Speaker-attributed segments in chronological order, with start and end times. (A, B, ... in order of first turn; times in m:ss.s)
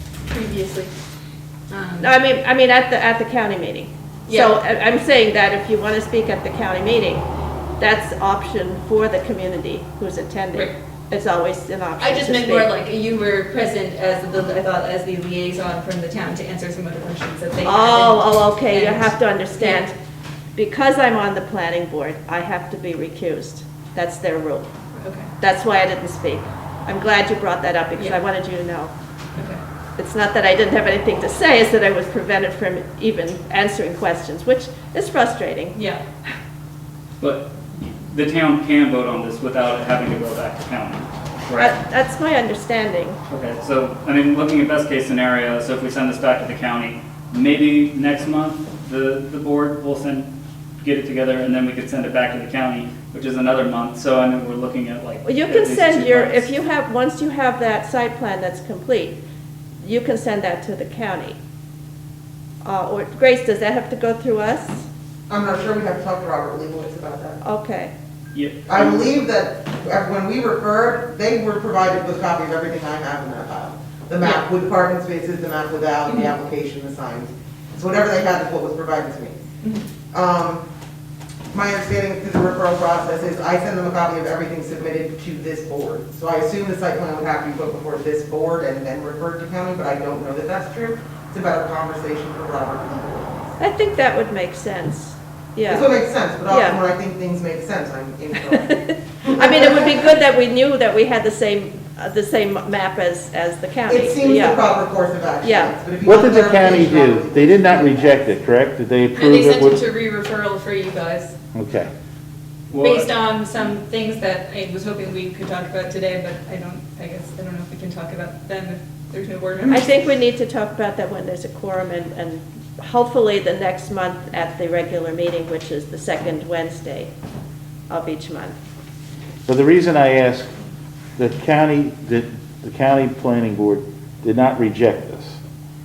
0:00.3-0:00.9 A
0:01.7-0:02.1 A
0:02.0-0:07.3 B
0:04.3-0:04.5 A
0:07.8-0:12.7 B
0:12.0-0:19.8 A
0:17.6-0:20.0 B
0:20.6-0:24.7 B
0:25.0-0:25.3 A
0:25.4-0:28.9 B
0:29.4-0:29.6 A
0:30.0-0:35.8 B
0:35.7-0:36.0 A
0:37.2-0:41.7 C
0:41.6-0:43.2 B
0:43.3-0:50.3 C
0:50.8-0:56.5 C
0:55.2-0:59.2 B
0:59.8-1:01.4 B
1:02.6-1:04.9 B
1:05.3-1:07.4 D
1:07.4-1:07.9 B
1:08.3-1:09.0 C
1:08.7-1:19.4 D
1:19.6-1:19.9 A
1:20.1-1:20.6 D
1:21.5-1:33.6 D
1:33.6-1:35.9 B
1:35.7-1:38.7 D
1:36.5-1:36.8 B
1:38.5-1:44.6 B
1:39.2-1:40.1 D
1:43.9-1:48.1 D
1:45.4-1:45.7 B
1:46.0-1:49.8 E
1:49.2-1:51.4 A
1:51.5-1:51.9 E
1:52.7-1:53.1 C
1:52.8-1:59.9 A
1:59.7-2:07.1 B
2:07.9-2:08.6 B
2:09.5-2:10.5 E
2:11.2-2:15.4 E